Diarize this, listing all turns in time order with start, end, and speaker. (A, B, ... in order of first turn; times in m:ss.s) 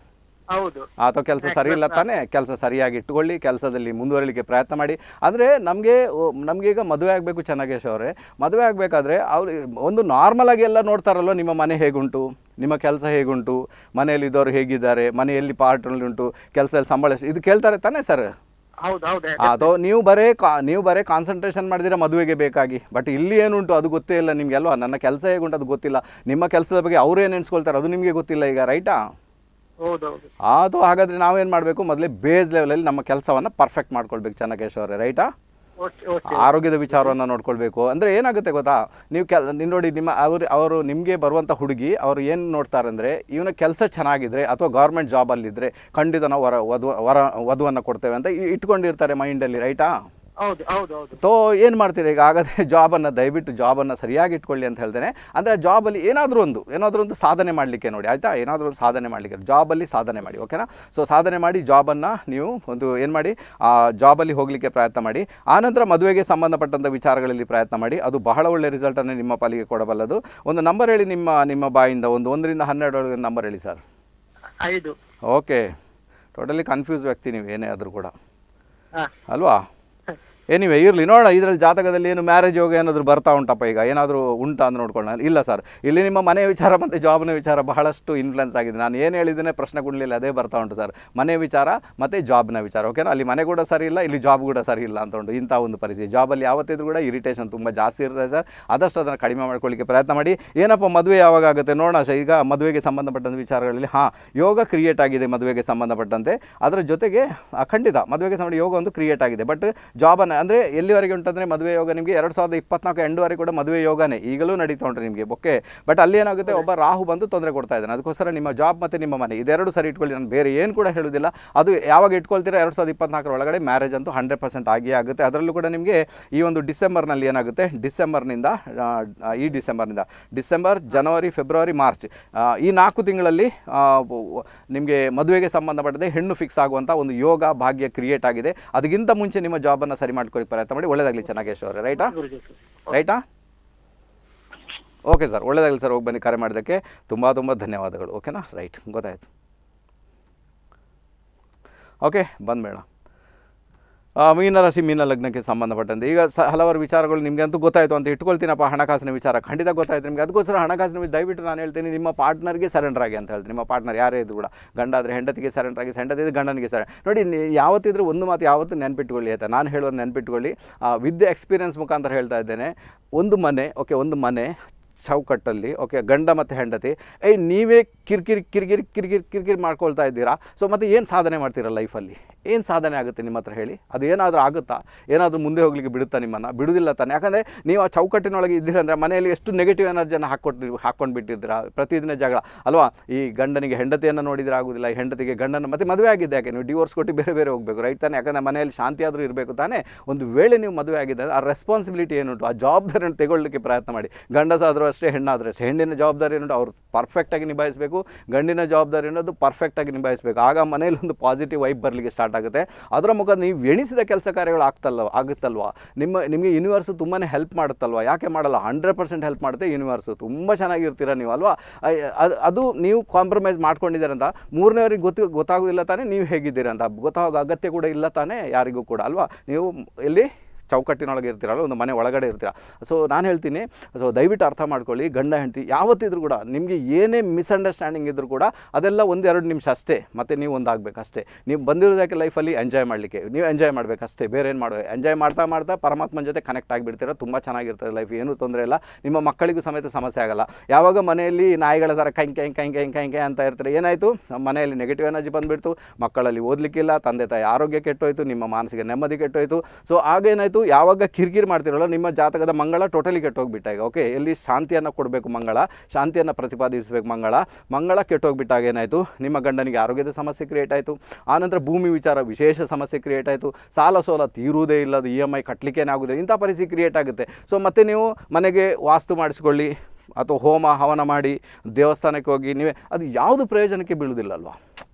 0:00.5-0:00.9 A
0:01.0-0:18.3 B
0:01.4-0:02.0 A
0:18.8-0:19.7 A
0:19.4-0:29.0 B
0:29.8-0:30.3 A
0:30.4-0:35.3 B
0:35.8-0:37.1 A
0:36.3-0:49.9 B
0:50.4-0:51.2 A
0:51.2-1:13.8 B
1:14.6-1:14.9 A
1:15.3-1:15.7 B
1:16.4-1:18.1 B
1:19.3-1:19.6 B
1:20.5-2:22.1 B
2:21.9-2:23.0 A
2:22.9-2:23.2 B
2:25.1-2:29.2 B
2:32.0-2:32.8 B
2:34.2-4:44.6 B